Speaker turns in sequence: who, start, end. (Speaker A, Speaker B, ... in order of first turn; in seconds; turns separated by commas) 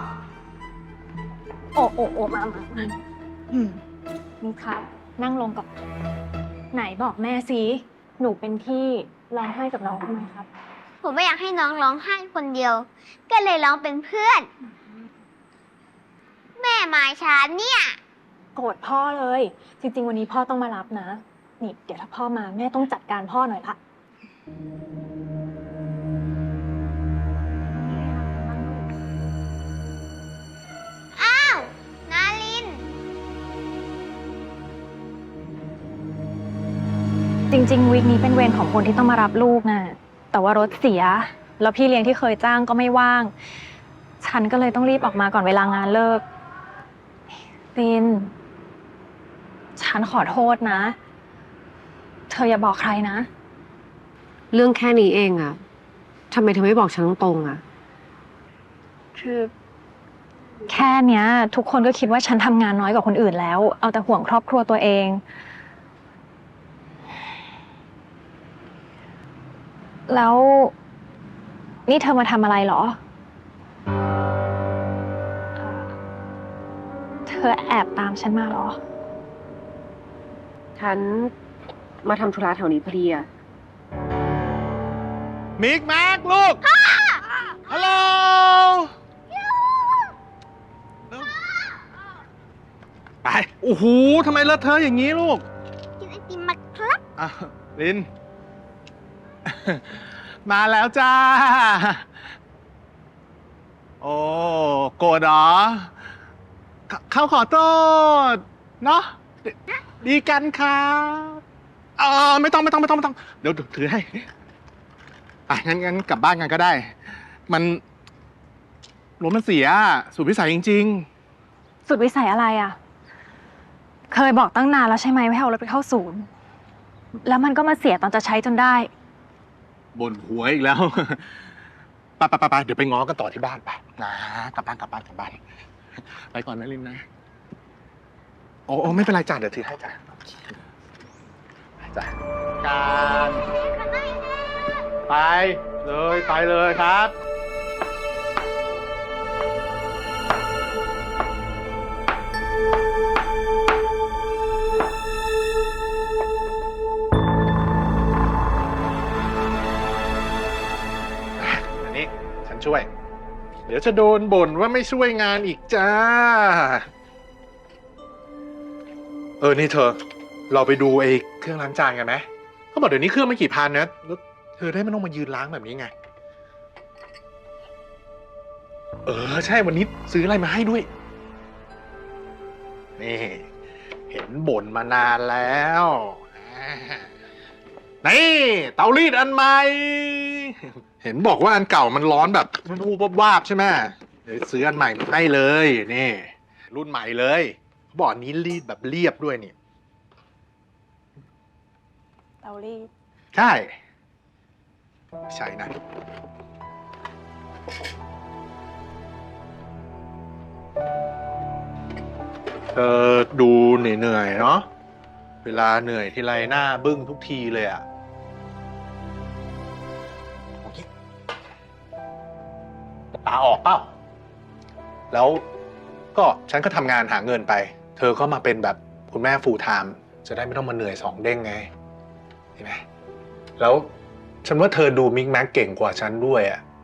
Speaker A: 1.7-3.0, Speaker A: 3.5-3.8, Speaker A: 4.4-5.7, Speaker A: 6.7-10.5, Speaker B: 11.0-14.5, Speaker B: 16.6-18.0, Speaker A: 18.5-23.8, Speaker A: 28.2-28.7, Speaker B: 31.1-32.8, Speaker A: 37.5-43.3, Speaker A: 44.2-46.2, Speaker A: 47.7-48.3, Speaker A: 49.8-51.0, Speaker A: 52.3-53.3, Speaker C: 54.5-55.6, Speaker C: 56.3-57.6, Speaker A: 60.7-65.2, Speaker A: 70.1-70.7, Speaker A: 71.9-73.0, Speaker A: 75.6-75.9, Speaker A: 77.2-78.8, Speaker C: 80.8-81.3, Speaker C: 82.0-83.3, Speaker D: 85.6-86.6, Speaker B: 86.8-87.2, Speaker D: 87.7-88.9, Speaker B: 89.3-90.0, Speaker D: 93.2-95.4, Speaker B: 96.0-97.0, Speaker D: 97.2-98.1, Speaker D: 99.4-102.1, Speaker D: 104.0-105.9, Speaker D: 106.9-111.4, Speaker D: 112.0-114.3, Speaker D: 115.5-116.9, Speaker D: 117.5-117.8, Speaker D: 119.2-121.1, Speaker A: 121.8-122.8, Speaker A: 124.1-126.3, Speaker A: 127.2-128.9, Speaker D: 129.9-131.4, Speaker D: 132.2-135.4, Speaker D: 136.0-137.0, Speaker D: 138.7-140.6, Speaker D: 141.8-143.5, Speaker B: 143.8-144.3, Speaker D: 145.1-147.2, Speaker D: 161.4-162.9, Speaker D: 163.7-166.9, Speaker D: 169.4-175.9, Speaker D: 179.1-180.9, Speaker D: 183.0-183.5, Speaker D: 184.1-187.1, Speaker D: 188.0-199.5, Speaker A: 202.4-202.9, Speaker D: 203.3-203.7, Speaker D: 205.3-205.7, Speaker D: 212.7-214.7, Speaker D: 215.4-217.8, Speaker D: 223.1-223.9, Speaker D: 225.1-225.4, Speaker D: 226.1-231.7, Speaker D: 232.6-232.8, Speaker D: 233.6-233.9, Speaker D: 234.4-236.6